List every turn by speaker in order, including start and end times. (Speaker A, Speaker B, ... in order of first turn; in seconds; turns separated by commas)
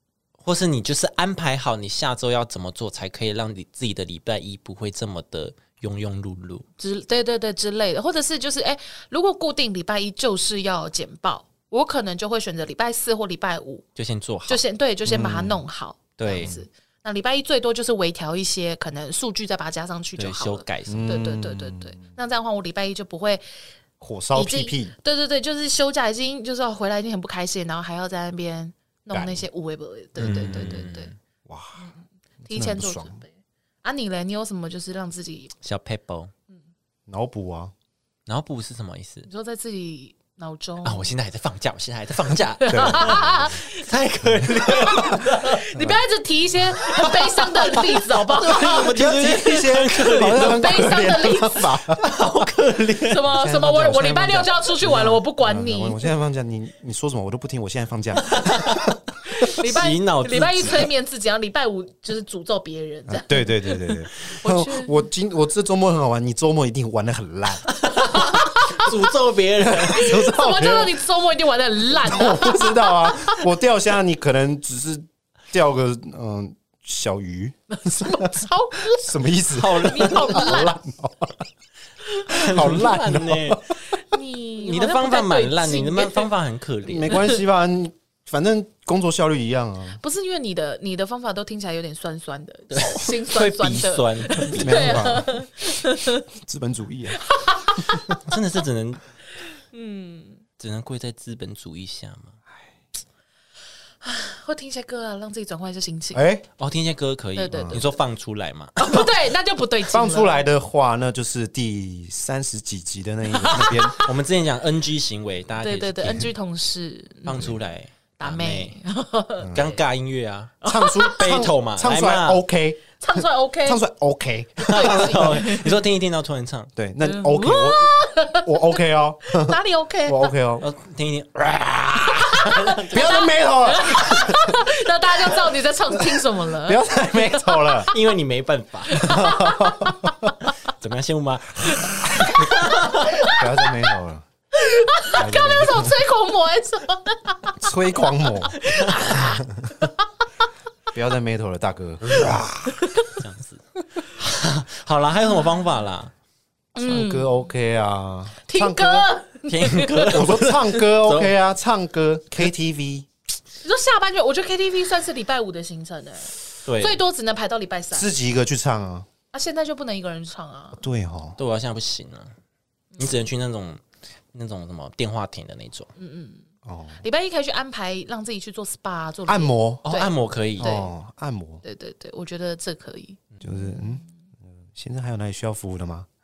Speaker A: 0.4-6.7, Speaker B: 6.8-13.8, Speaker A: 14.0-14.6, Speaker B: 14.5-23.4, Speaker C: 15.1-15.6, Speaker A: 16.2-16.6, Speaker C: 16.3-16.6, Speaker A: 20.2-21.2, Speaker C: 20.9-22.0, Speaker C: 24.0-24.9, Speaker B: 24.3-31.1, Speaker C: 29.1-29.4, Speaker A: 30.2-31.1, Speaker C: 30.2-30.8, Speaker C: 31.5-31.9, Speaker C: 32.5-33.2, Speaker B: 32.5-35.5, Speaker A: 35.6-36.3, Speaker C: 37.1-37.7, Speaker A: 38.3-39.3, Speaker B: 39.3-41.1, Speaker A: 40.8-45.6, Speaker B: 42.6-43.9, Speaker C: 42.7-43.4, Speaker C: 44.4-45.2, Speaker B: 44.5-49.1, Speaker A: 47.1-50.9, Speaker C: 48.5-52.0, Speaker B: 50.3-51.7, Speaker A: 52.0-53.3, Speaker B: 53.1-56.0, Speaker C: 53.3-58.8, Speaker A: 58.2-60.9, Speaker B: 59.3-65.1, Speaker C: 63.1-67.7, Speaker A: 67.7-70.1, Speaker B: 67.9-68.9, Speaker C: 69.7-71.0, Speaker B: 69.8-73.5, Speaker C: 71.9-78.4, Speaker B: 77.7-80.8, Speaker C: 79.0-81.5, Speaker A: 79.5-80.6, Speaker A: 82.3-83.7, Speaker C: 82.3-83.8, Speaker B: 83.8-86.3, Speaker A: 84.6-87.3, Speaker C: 86.8-90.0, Speaker B: 87.1-87.4, Speaker B: 90.0-96.2, Speaker A: 92.7-95.2, Speaker C: 94.6-95.4, Speaker C: 96.3-97.2, Speaker B: 97.2-98.3, Speaker A: 98.1-99.0, Speaker B: 99.7-100.4, Speaker A: 100.6-102.4, Speaker B: 104.0-106.2, Speaker C: 106.1-106.5, Speaker A: 106.6-109.2, Speaker B: 107.3-108.0, Speaker C: 107.5-107.8, Speaker B: 108.8-110.5, Speaker C: 109.9-114.0, Speaker B: 113.3-114.1, Speaker A: 114.0-116.3, Speaker B: 115.6-117.6, Speaker A: 117.3-118.8, Speaker B: 118.2-119.8, Speaker A: 119.5-120.6, Speaker B: 120.6-121.4, Speaker C: 120.7-125.4, Speaker A: 121.1-122.4, Speaker B: 123.0-123.8, Speaker B: 124.6-125.8, Speaker A: 124.7-126.7, Speaker C: 126.8-130.7, Speaker B: 127.0-130.3, Speaker A: 130.6-133.2, Speaker C: 131.8-134.6, Speaker B: 132.3-138.0, Speaker C: 136.0-137.9, Speaker A: 137.9-139.1, Speaker B: 138.9-140.3, Speaker C: 139.0-140.1, Speaker A: 140.7-143.1, Speaker C: 141.8-142.4, Speaker B: 142.3-144.0, Speaker C: 143.2-144.3, Speaker B: 144.6-147.6, Speaker C: 145.1-146.0, Speaker C: 147.6-149.7, Speaker B: 148.5-150.1, Speaker C: 150.9-152.8, Speaker B: 152.7-153.2, Speaker A: 153.1-156.1, Speaker B: 156.8-157.4, Speaker C: 156.8-159.1, Speaker B: 158.4-160.2, Speaker A: 159.5-161.3, Speaker C: 160.1-163.1, Speaker B: 163.6-168.1, Speaker A: 166.7-167.0, Speaker C: 167.9-169.1, Speaker B: 169.3-170.8, Speaker C: 170.8-171.4, Speaker A: 171.4-172.3, Speaker B: 172.9-173.2, Speaker A: 173.0-175.9, Speaker B: 176.0-176.4, Speaker C: 176.7-177.0, Speaker B: 177.0-180.9, Speaker C: 179.3-179.8, Speaker A: 179.9-180.7, Speaker C: 180.6-181.6, Speaker B: 181.6-184.1, Speaker C: 183.4-186.1